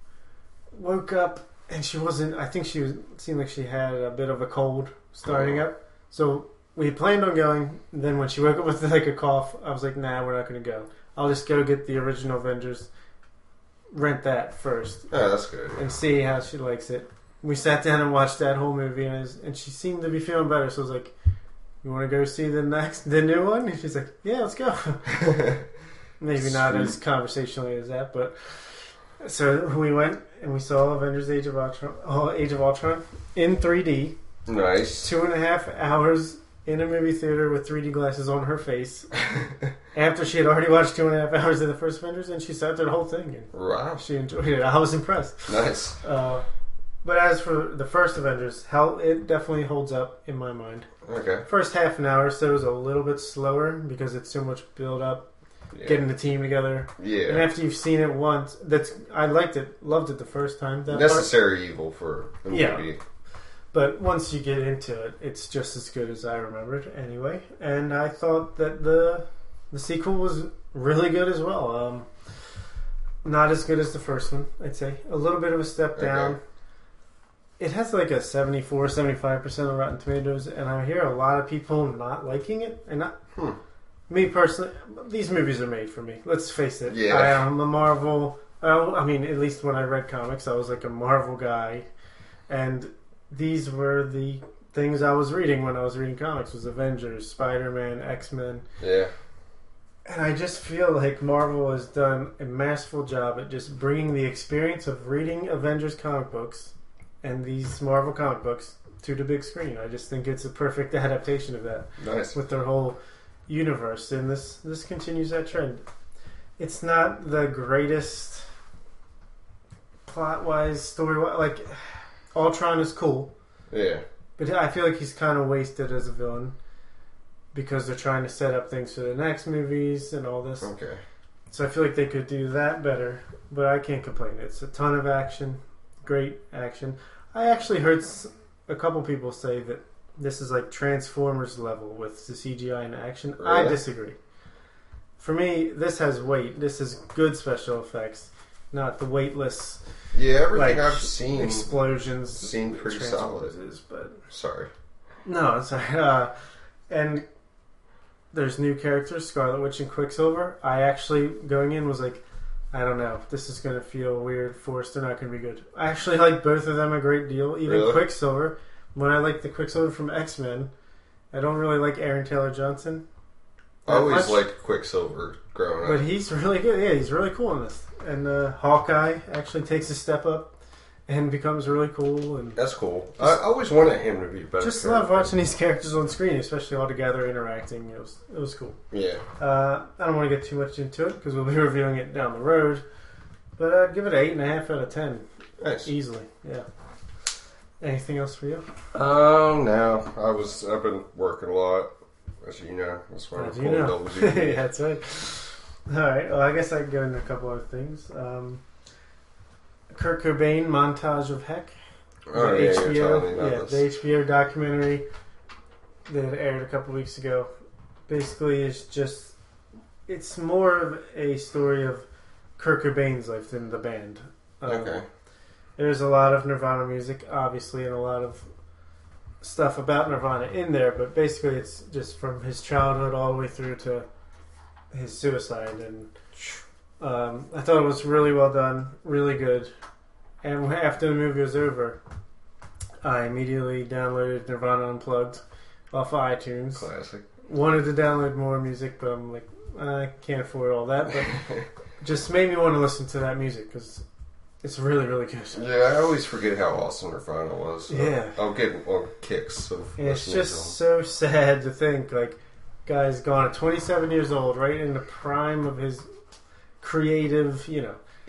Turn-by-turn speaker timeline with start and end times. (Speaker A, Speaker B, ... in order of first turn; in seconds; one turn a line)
Speaker A: 0.7-12.9
Speaker B: 5.2-5.6
Speaker A: 13.9-15.1
Speaker B: 15.1-15.8
Speaker A: 15.7-21.1
Speaker A: 21.8-25.1
Speaker B: 25.1-25.6
Speaker A: 26.2-34.2
Speaker B: 26.4-27.0
Speaker B: 34.5-35.1
Speaker A: 35.0-39.2
Speaker A: 39.9-46.4
Speaker B: 43.5-44.0
Speaker B: 45.5-46.0
Speaker A: 47.0-50.9
Speaker B: 51.0-51.4
Speaker A: 51.5-55.3
Speaker B: 55.7-56.0
Speaker A: 55.8-61.3
Speaker B: 57.0-57.4
Speaker B: 60.9-63.0
Speaker A: 62.5-62.9
Speaker A: 63.7-72.1
Speaker A: 73.2-76.4
Speaker B: 76.0-76.3
Speaker A: 77.6-83.2
Speaker A: 84.1-91.9
Speaker B: 86.9-87.4
Speaker A: 92.5-98.6
Speaker B: 98.8-99.1
Speaker A: 100.0-115.8
Speaker B: 112.0-112.3
Speaker A: 116.6-118.5
Speaker A: 120.0-123.3
Speaker B: 123.7-124.0
Speaker A: 124.4-126.5
Speaker A: 127.5-130.7
Speaker B: 130.6-131.0
Speaker A: 131.5-144.2
Speaker B: 143.4-143.8
Speaker A: 145.2-149.8
Speaker B: 150.1-151.7
Speaker A: 150.5-154.2
Speaker B: 152.4-153.5
Speaker B: 154.3-154.7
Speaker A: 155.2-156.3
Speaker A: 156.9-157.2
Speaker A: 158.3-170.7
Speaker B: 167.7-168.0
Speaker A: 171.3-173.0
Speaker A: 173.8-174.4
Speaker B: 173.8-176.0
Speaker A: 175.8-180.5
Speaker A: 181.1-182.6
Speaker B: 182.6-185.3
Speaker A: 184.6-188.8
Speaker B: 188.9-189.2
Speaker A: 189.4-192.8
Speaker A: 193.6-196.7
Speaker B: 195.6-195.9
Speaker A: 197.8-198.7
Speaker B: 198.9-204.6
Speaker A: 203.3-208.6
Speaker A: 209.9-211.7
Speaker B: 212.3-213.8
Speaker A: 212.3-215.1
Speaker A: 216.1-217.5
Speaker A: 218.1-219.3
Speaker A: 220.1-222.1
Speaker A: 222.6-225.0
Speaker B: 224.6-225.0
Speaker A: 225.8-228.4
Speaker A: 229.4-234.1
Speaker A: 234.9-236.1
Speaker A: 237.0-239.7
Speaker A: 240.4-242.0
Speaker A: 243.0-246.9
Speaker B: 246.8-247.3
Speaker A: 247.4-254.0
Speaker B: 251.3-251.7
Speaker A: 254.6-255.6
Speaker B: 255.5-260.8
Speaker A: 257.9-258.4
Speaker A: 260.0-266.1
Speaker A: 266.8-268.0